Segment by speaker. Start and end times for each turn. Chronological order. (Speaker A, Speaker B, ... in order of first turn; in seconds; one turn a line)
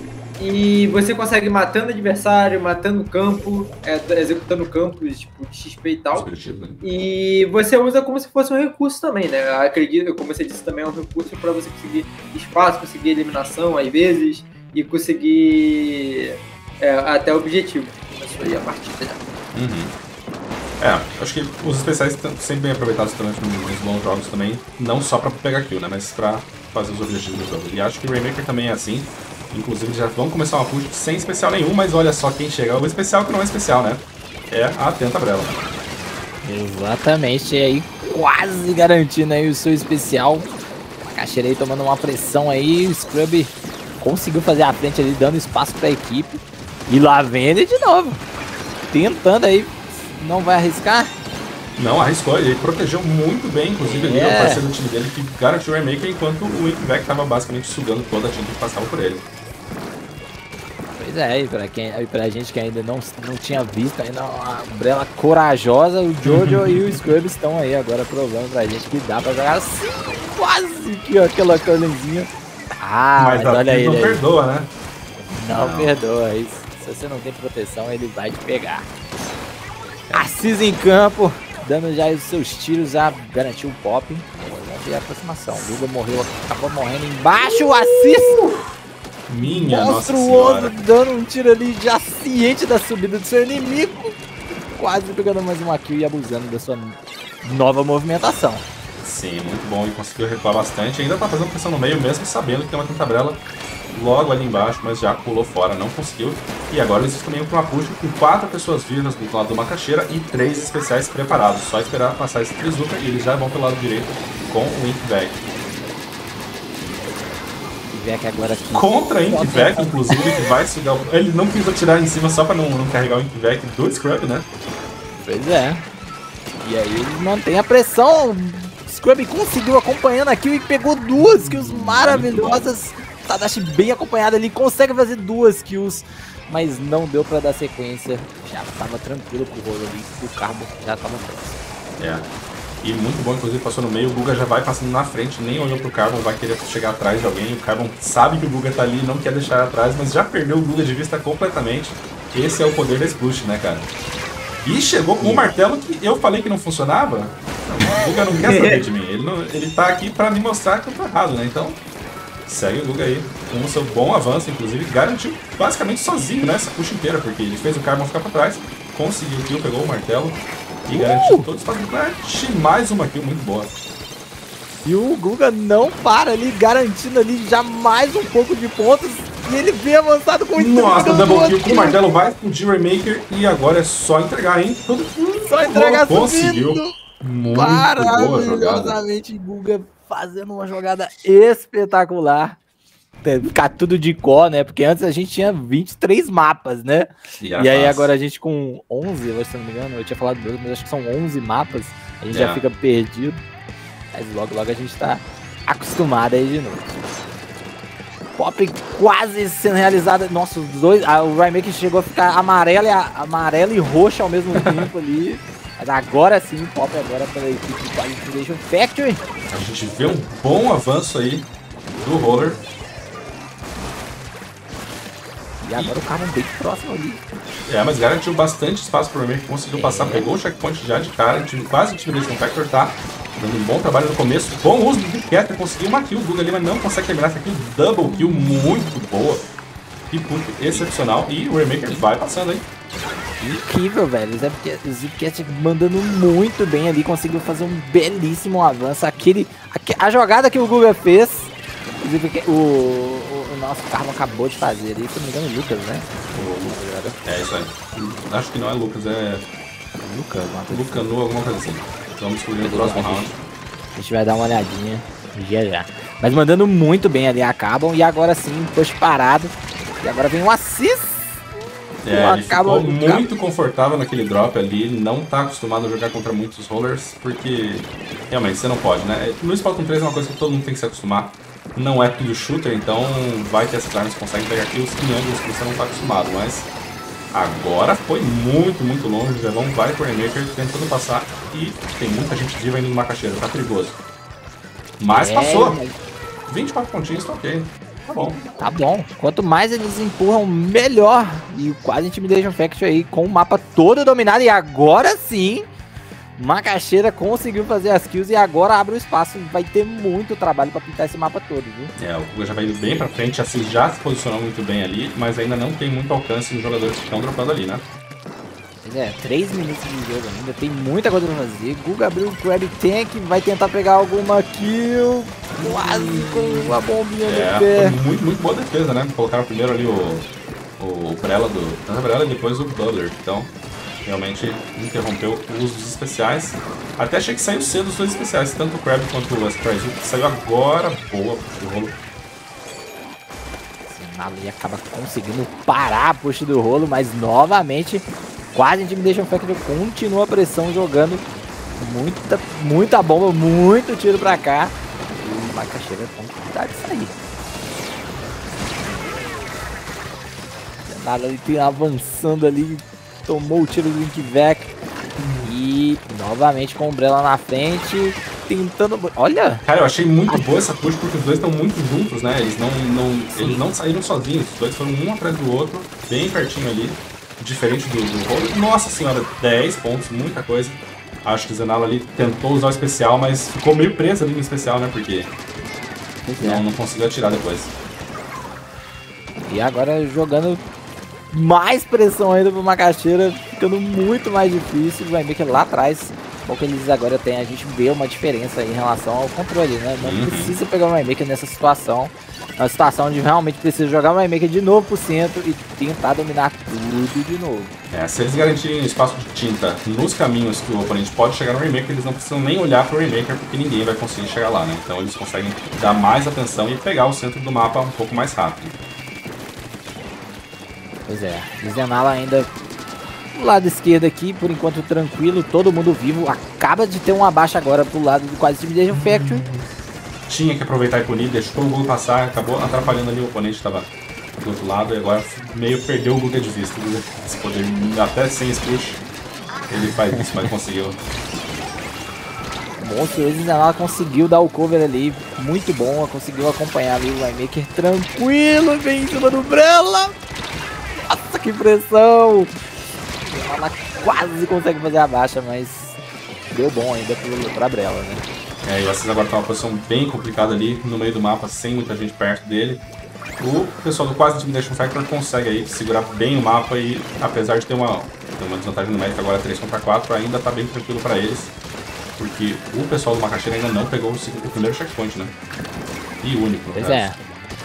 Speaker A: 0.4-19.2
Speaker B: 6.1-6.8
Speaker B: 19.5-19.9
Speaker B: 20.8-35.5
Speaker C: 36.4-40.5
Speaker C: 41.0-48.2
Speaker C: 48.9-51.1
Speaker B: 51.8-59.2
Speaker C: 53.8-54.6
Speaker C: 61.0-74.2
Speaker B: 66.2-67.0
Speaker B: 73.2-74.7
Speaker C: 75.3-78.9
Speaker B: 75.5-75.9
Speaker C: 80.1-88.4
Speaker B: 89.3-90.7
Speaker C: 89.4-94.2
Speaker C: 94.7-98.6
Speaker B: 99.0-115.4
Speaker C: 117.9-120.4
Speaker B: 118.7-124.5
Speaker C: 125.2-125.8
Speaker C: 126.6-141.6
Speaker B: 131.2-132.7
Speaker B: 142.0-142.3
Speaker B: 142.8-153.9
Speaker B: 154.6-161.8
Speaker C: 155.2-155.5
Speaker B: 162.4-173.7
Speaker C: 170.9-171.4
Speaker C: 174.8-182.0
Speaker B: 180.6-189.0
Speaker C: 185.4-186.9
Speaker C: 187.5-192.6
Speaker C: 193.2-203.4
Speaker B: 197.4-198.1
Speaker B: 202.3-202.6
Speaker C: 204.1-206.9
Speaker C: 208.4-219.2
Speaker B: 214.6-214.9
Speaker B: 219.5-222.6
Speaker C: 225.6-227.2
Speaker B: 227.7-239.4
Speaker C: 229.7-230.3
Speaker B: 240.1-242.7
Speaker C: 243.4-256.1
Speaker B: 256.3-259.5
Speaker C: 256.7-257.2
Speaker C: 260.0-261.1
Speaker B: 260.7-263.4
Speaker C: 262.6-263.3
Speaker C: 263.9-271.4
Speaker B: 272.0-286.7
Speaker C: 272.1-273.2
Speaker B: 287.3-294.0
Speaker B: 295.0-295.8
Speaker C: 295.1-295.9
Speaker B: 296.5-298.4
Speaker C: 298.6-305.7
Speaker C: 306.4-311.9
Speaker B: 311.9-317.8
Speaker C: 318.8-328.0
Speaker B: 325.6-333.5
Speaker B: 334.0-341.9
Speaker C: 343.9-351.2
Speaker C: 351.8-357.1
Speaker C: 360.9-364.7
Speaker B: 365.2-365.5
Speaker C: 365.4-369.6
Speaker B: 369.6-385.3
Speaker C: 373.3-373.6
Speaker C: 386.2-386.6
Speaker B: 386.4-387.7
Speaker C: 389.4-390.6
Speaker C: 391.3-407.7
Speaker B: 400.0-400.5
Speaker B: 407.9-418.8
Speaker C: 421.1-422.5
Speaker C: 423.3-429.4
Speaker B: 428.9-429.7
Speaker B: 430.3-433.9
Speaker B: 434.4-439.0
Speaker B: 439.7-441.0
Speaker C: 440.1-440.5
Speaker C: 442.8-450.1
Speaker C: 451.1-452.5
Speaker C: 453.2-456.0
Speaker C: 456.5-458.2
Speaker B: 458.6-462.8
Speaker B: 463.4-471.5
Speaker B: 472.2-475.3
Speaker B: 476.2-477.1
Speaker C: 476.7-477.2